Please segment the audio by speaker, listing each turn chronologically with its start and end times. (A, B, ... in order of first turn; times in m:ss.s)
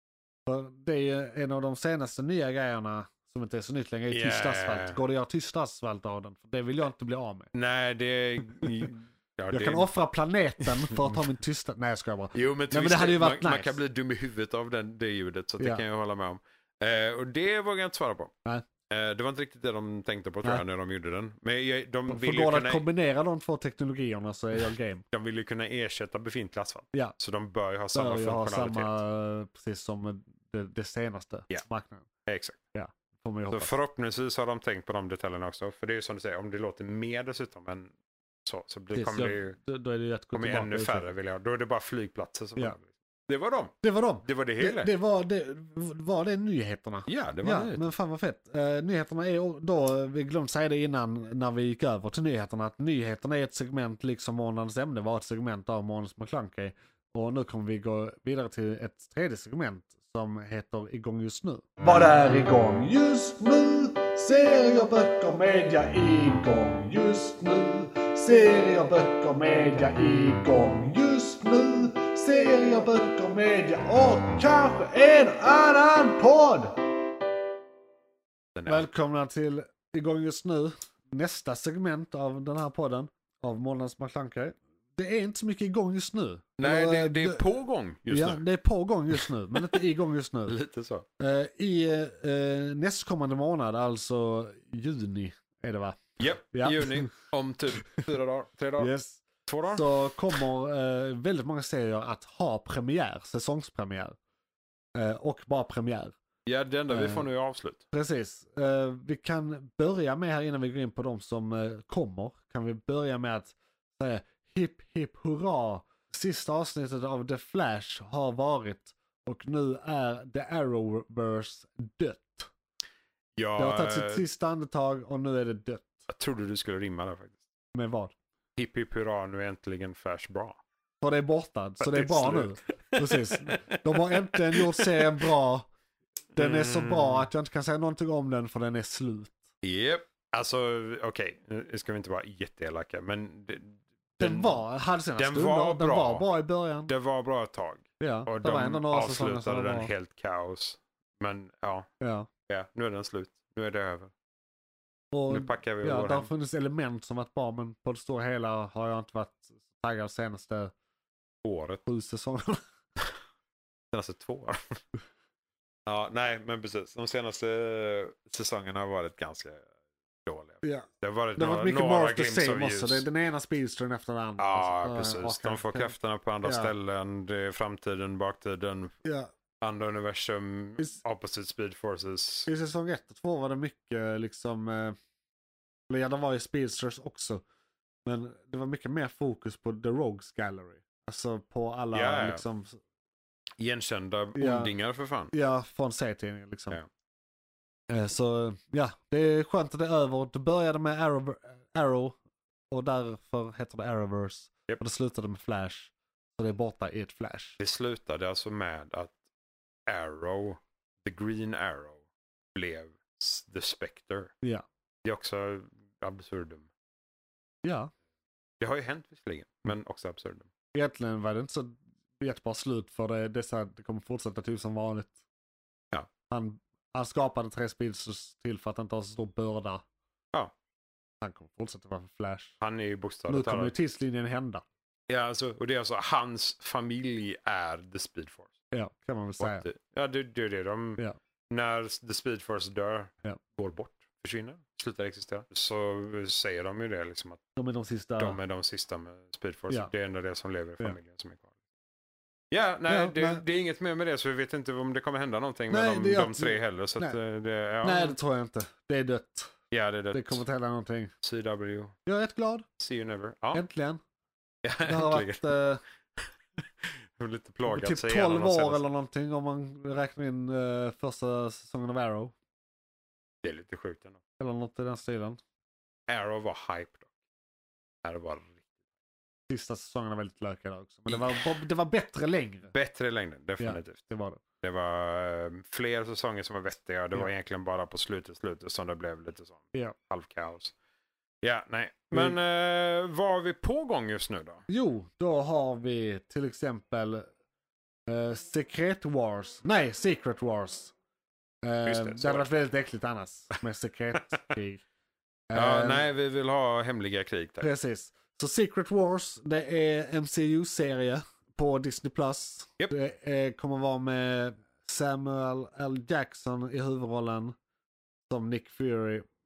0:00.5-0:07.5 A
0:04.1-0:05.0 B
0:07.5-0:09.9 B
0:08.6-0:08.9 A
0:09.5-0:13.8 A
0:10.6-0:11.2 B
0:12.3-0:18.3 B
0:18.9-0:22.8 B
0:22.1-0:25.0 A
0:25.1-0:29.0 B
0:27.9-0:32.1 A
0:32.2-0:32.6 B
0:32.7-0:33.7 A
0:33.5-0:37.9 B
0:38.5-0:39.6 B
0:38.9-0:41.1 A
0:40.3-0:44.9 B
0:43.8-1:16.8 A
0:47.1-0:47.9 B
1:18.6-1:18.9 B
1:18.7-1:27.4 A
1:26.6-1:28.4 B
1:28.1-1:30.6 A
1:29.1-1:29.7 B
1:30.5-1:31.1 B
1:31.2-1:37.1 A
1:36.2-1:38.9 B
1:38.8-1:44.2 A
1:39.5-1:40.4 B
1:44.9-1:46.2 A
1:46.5-1:47.8 B
1:46.9-1:47.3 A
1:47.9-2:02.5 A
2:03.4-2:04.2 B
2:03.6-2:05.9 A
2:06.1-2:07.4 B
2:07.7-2:08.1 A
2:08.6-2:10.6 B
2:11.0-2:15.7 A
2:11.8-2:15.0 B
2:16.4-2:19.4 A
2:16.4-2:17.3 B
2:19.6-2:24.6 B
2:24.2-2:26.9 A
2:25.2-2:26.3 B
2:26.9-2:31.9 B
2:28.0-2:29.9 A
2:32.0-2:32.3 A
2:32.5-2:34.1 B
2:35.1-2:40.7 A
2:35.3-2:36.3 B
2:41.4-2:41.8 B
2:41.9-2:42.6 A
2:43.9-2:44.8 B
2:45.9-2:49.7 B
2:50.3-2:53.1 B
2:50.6-2:55.9 A
2:54.4-2:59.0 B
2:56.4-2:56.7 A
2:59.0-2:59.3 A
2:59.6-3:02.5 B
3:02.5-3:05.0 A
3:05.9-3:07.4 A
3:08.0-3:12.8 A
3:11.9-3:12.4 B
3:13.6-3:15.3 B
3:14.4-3:14.7 A
3:15.3-3:16.8 A
3:17.9-3:22.2 A
3:22.7-3:27.6 A
3:27.6-3:29.1 B
3:29.9-3:32.0 B
3:32.6-3:34.3 B
3:35.0-3:36.7 B
3:37.6-3:37.9 A
3:38.6-3:40.5 B
3:40.7-3:45.2 A
3:46.3-3:49.8 A
3:51.2-3:52.6 A
3:52.6-3:53.7 B
3:53.3-3:54.6 A
3:55.1-3:58.5 B
3:58.7-3:59.6 A
3:59.4-4:07.4 B
4:07.6-4:08.4 A
4:08.2-4:11.5 B
4:12.5-4:18.2 B
4:12.9-4:13.4 A
4:15.7-4:17.2 A
4:17.8-4:19.5 A
4:19.7-4:20.4 B
4:20.1-4:21.1 A
4:21.2-4:22.0 B
4:22.1-4:22.7 A
4:22.8-4:23.6 B
4:23.5-4:24.0 A
4:24.6-4:25.5 B
4:24.9-4:25.8 A
4:26.8-4:28.8 B
4:27.7-4:32.3 A
4:33.4-4:34.2 B
4:34.4-4:35.4 A
4:36.1-4:37.1 B
4:38.0-4:38.6 B
4:39.5-4:42.7 A
4:42.7-4:44.0 B
4:43.6-4:44.4 A
4:44.6-4:50.8 B
4:51.4-4:54.6 B
4:54.7-4:57.3 A
4:58.1-5:00.9 A
5:01.6-5:04.8 A
5:01.9-5:02.5 B
5:04.2-5:04.5 B
5:05.5-5:06.0 A
5:05.5-5:07.7 B
5:07.6-5:17.6 A
5:18.3-5:19.3 A